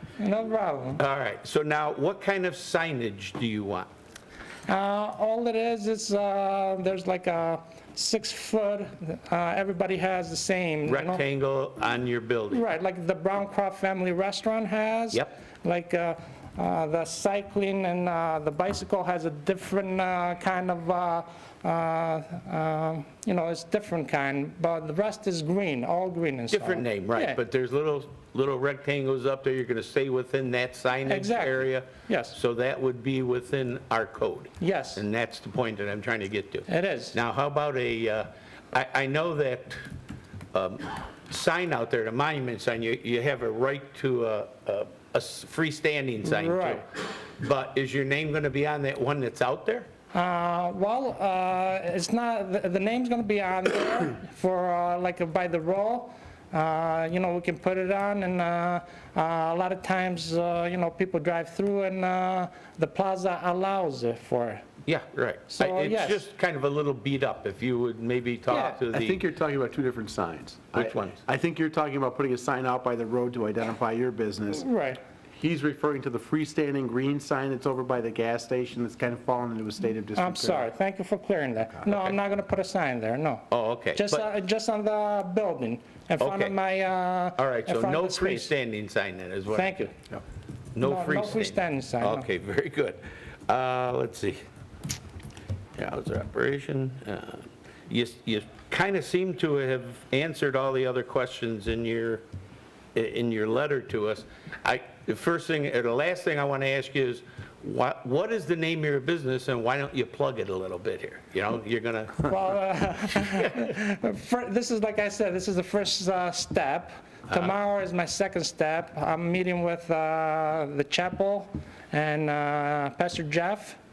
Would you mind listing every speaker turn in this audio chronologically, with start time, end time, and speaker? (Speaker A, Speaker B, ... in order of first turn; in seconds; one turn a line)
Speaker A: 0.2-1.0
Speaker B: 1.0-3.9
Speaker A: 4.7-11.2
Speaker B: 10.8-12.6
Speaker A: 12.5-27.4
Speaker B: 26.5-39.8
Speaker A: 31.1-32.4
Speaker A: 34.6-35.0
Speaker A: 36.7-37.1
Speaker B: 40.5-46.8
Speaker A: 46.2-46.8
Speaker B: 47.4-49.9
Speaker A: 50.1-64.6
Speaker B: 64.8-69.2
Speaker A: 65.5-66.2
Speaker A: 68.5-68.8
Speaker C: 68.7-74.7
Speaker B: 70.7-71.2
Speaker A: 74.5-75.0
Speaker C: 75.4-80.7
Speaker A: 80.2-88.5
Speaker B: 83.5-84.2
Speaker B: 86.2-86.5
Speaker B: 87.4-89.8
Speaker A: 89.5-89.9
Speaker B: 90.7-94.4
Speaker A: 90.8-92.2
Speaker B: 95.8-102.2
Speaker B: 102.9-112.3
Speaker A: 112.2-123.8